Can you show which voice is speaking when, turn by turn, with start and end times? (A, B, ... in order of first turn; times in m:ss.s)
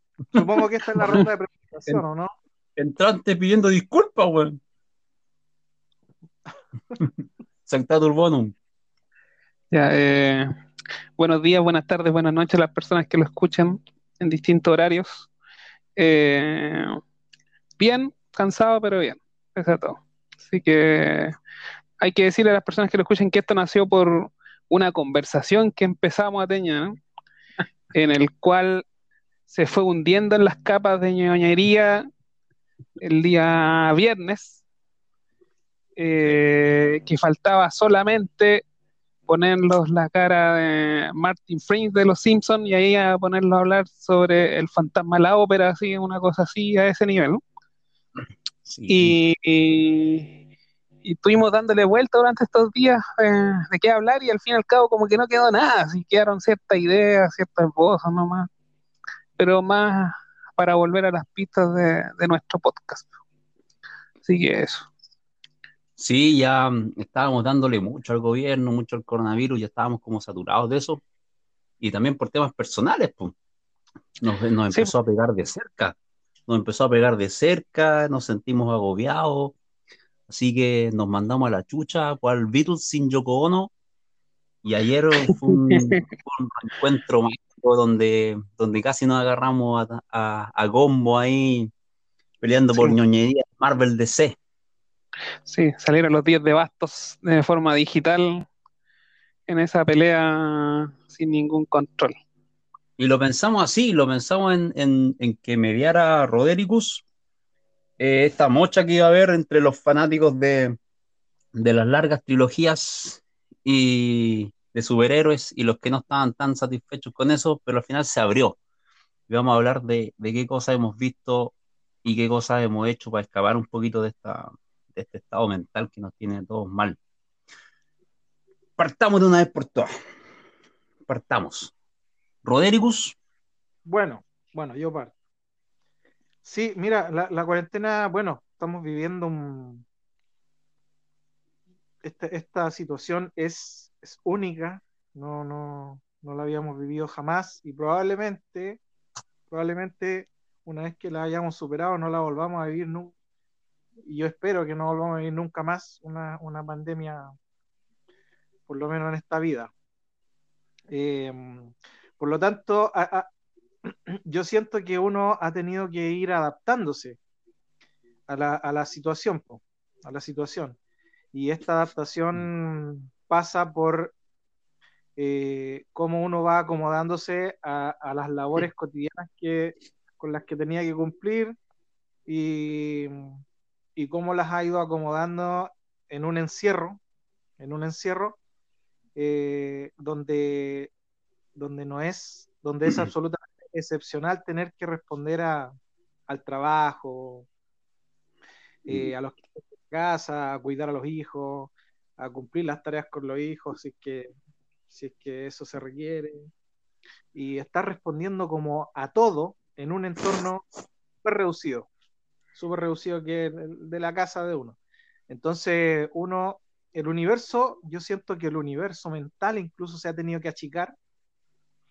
0:00.3-0:02.3 A
0:02.8-0:04.6 B
0:07.7-0:08.6 B
0:09.7-0:10.5 C
0:11.2-0:15.3 C
0:16.0-0:17.0 C
0:17.8-0:21.4 C
0:22.0-0:27.0 C
0:27.9-0:28.8 C
0:29.5-0:32.1 C
0:33.0-0:34.6 C
0:36.0-0:38.6 C
0:39.3-0:47.4 C
0:48.7-0:49.2 B
0:48.9-0:50.3 C
0:51.0-0:58.5 C
0:59.4-1:03.1 C
1:04.2-1:04.9 C
1:06.0-1:11.0 B
1:11.8-1:13.4 B
1:14.2-1:16.0 B
1:16.5-1:19.6 B
1:20.3-1:23.7 B
1:24.6-1:31.7 B
1:25.5-1:26.0 C
1:32.4-1:34.4 B
1:35.4-1:38.5 C
1:39.5-1:42.2 C
1:43.0-1:47.0 B
1:48.0-1:50.8 B
1:51.6-1:58.6 B
1:59.3-2:07.0 B
2:08.8-2:09.9 B
2:11.1-2:11.7 B
2:12.4-2:13.2 B
2:13.9-2:15.1 A
2:16.4-2:19.8 A
2:22.0-2:28.8 A
2:29.5-2:33.1 A
2:34.0-2:37.3 A
2:38.7-2:39.7 A
2:40.9-2:43.3 A
2:43.8-2:47.2 A
2:48.3-2:50.8 A
2:51.3-2:54.2 A
2:55.2-3:01.6 A
3:02.3-3:03.4 A
3:04.0-3:07.0 A
3:07.6-3:08.4 A
3:09.2-3:10.9 A
3:11.6-3:15.8 A
3:16.3-3:17.5 A
3:18.8-3:24.3 A
3:18.9-3:19.1 B
3:24.9-3:26.5 A
3:27.3-3:30.7 A
3:31.2-3:31.9 A
3:32.6-3:34.8 A
3:35.3-3:41.0 A